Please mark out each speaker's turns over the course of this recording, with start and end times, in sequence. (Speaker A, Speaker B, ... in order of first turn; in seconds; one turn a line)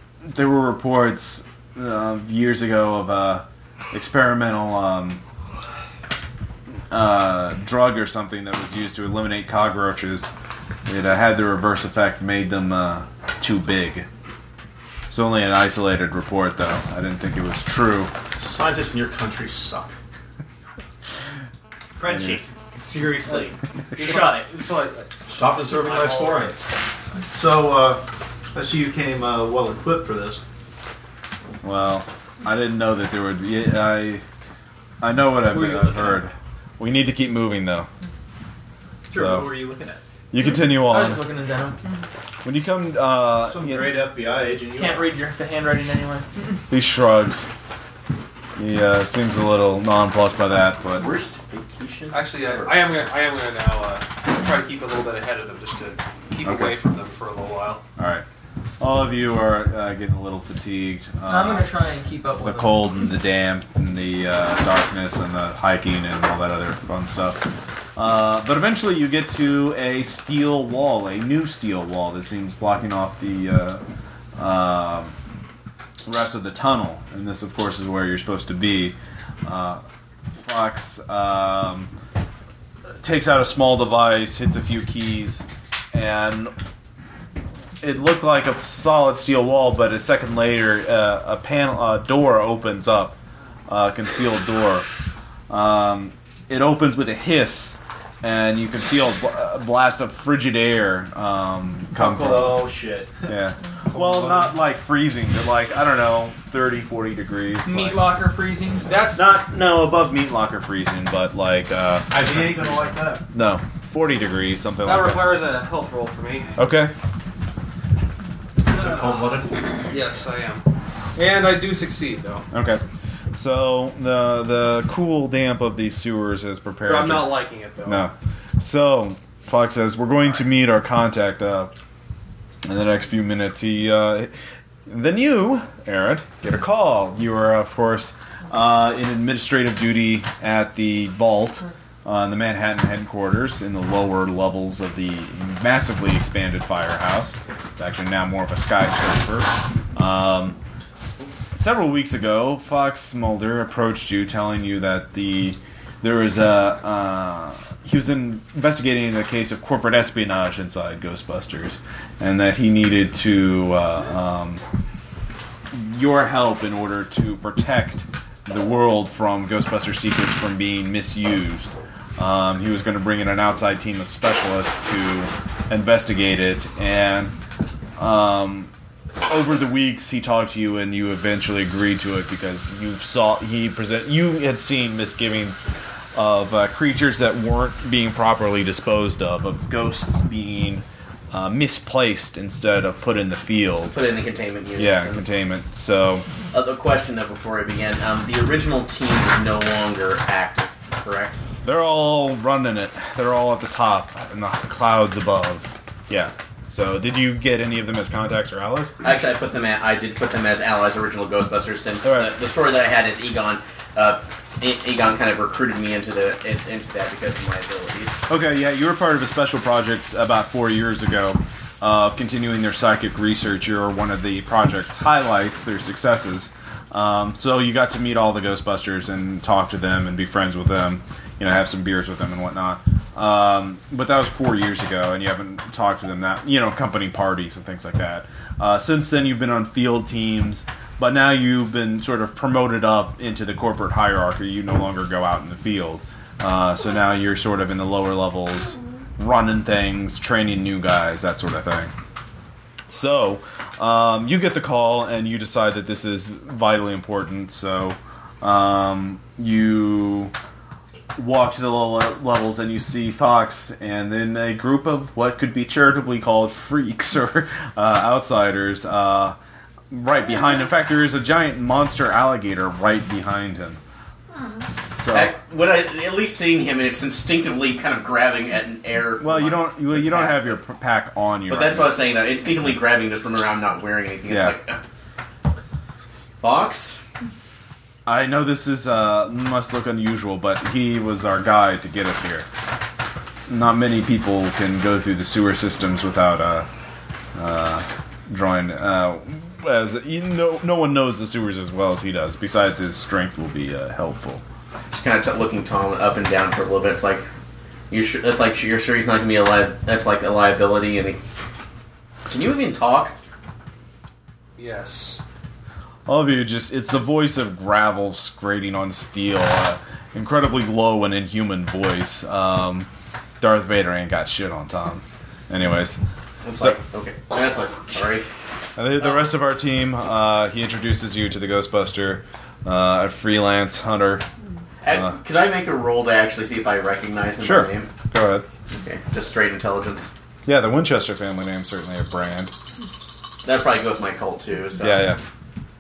Speaker A: 0.2-5.2
Speaker A: 6.9-10.3
Speaker A: 10.9-14.1
Speaker A: 15.1-18.1
Speaker B: 18.4-20.0
Speaker C: 22.0-24.6
Speaker A: 22.1-22.4
Speaker D: 23.9-25.1
Speaker B: 25.3-26.6
Speaker E: 27.3-30.4
Speaker A: 31.6-34.2
Speaker A: 35.0-37.9
Speaker D: 35.5-36.2
Speaker C: 39.1-40.0
Speaker A: 39.1-39.5
Speaker A: 40.3-41.2
Speaker F: 40.4-41.9
Speaker A: 42.4-44.0
Speaker E: 43.4-45.1
Speaker F: 44.7-46.4
Speaker A: 46.7-47.5
Speaker A: 48.6-51.1
Speaker G: 51.0-53.0
Speaker D: 52.1-57.8
Speaker A: 56.4-56.8
Speaker A: 58.0-58.2
Speaker A: 58.8-61.7
Speaker F: 61.3-63.0
Speaker A: 62.4-73.8
Speaker A: 74.4-75.2
Speaker A: 76.1-79.8
Speaker A: 80.4-81.9
Speaker A: 83.0-86.5
Speaker A: 87.8-94.9
Speaker A: 95.5-102.7
Speaker E: 102.0-103.3
Speaker A: 103.3-108.1
Speaker E: 103.9-104.6
Speaker F: 107.6-108.9
Speaker D: 108.9-109.4
Speaker A: 109.1-112.2
Speaker B: 112.1-113.1
Speaker E: 112.1-113.3
Speaker A: 113.3-115.4
Speaker D: 114.8-116.5
Speaker A: 116.6-116.9
Speaker B: 118.7-119.6
Speaker D: 119.9-122.5
Speaker A: 122.5-131.7
Speaker D: 126.8-128.1
Speaker A: 132.6-134.3
Speaker A: 134.9-150.6
Speaker A: 151.5-164.6
Speaker A: 165.7-177.3
Speaker A: 178.0-178.7
Speaker A: 179.3-185.6
Speaker A: 186.1-194.0
Speaker G: 193.9-195.2
Speaker A: 194.8-196.3
Speaker G: 196.5-201.4
Speaker A: 201.6-208.9
Speaker G: 209.0-218.2
Speaker A: 212.0-212.3
Speaker A: 218.3-251.9
Speaker A: 252.9-260.3
Speaker A: 261.1-269.4
Speaker A: 269.9-273.8
Speaker A: 275.0-275.4
Speaker G: 275.1-280.6
Speaker A: 279.2-282.0
Speaker G: 281.5-284.8
Speaker A: 284.3-284.6
Speaker G: 286.4-287.0
Speaker A: 288.1-292.5
Speaker A: 293.5-296.7
Speaker A: 297.4-304.4
Speaker G: 304.9-307.3
Speaker G: 307.9-311.2
Speaker G: 312.3-313.2
Speaker D: 314.6-315.2
Speaker A: 316.1-322.9
Speaker A: 323.4-326.0
Speaker G: 326.4-328.3
Speaker A: 328.8-334.2
Speaker G: 334.8-337.9
Speaker A: 337.4-338.5
Speaker G: 338.7-340.1
Speaker A: 340.4-342.5
Speaker G: 343.4-345.1
Speaker A: 344.8-345.2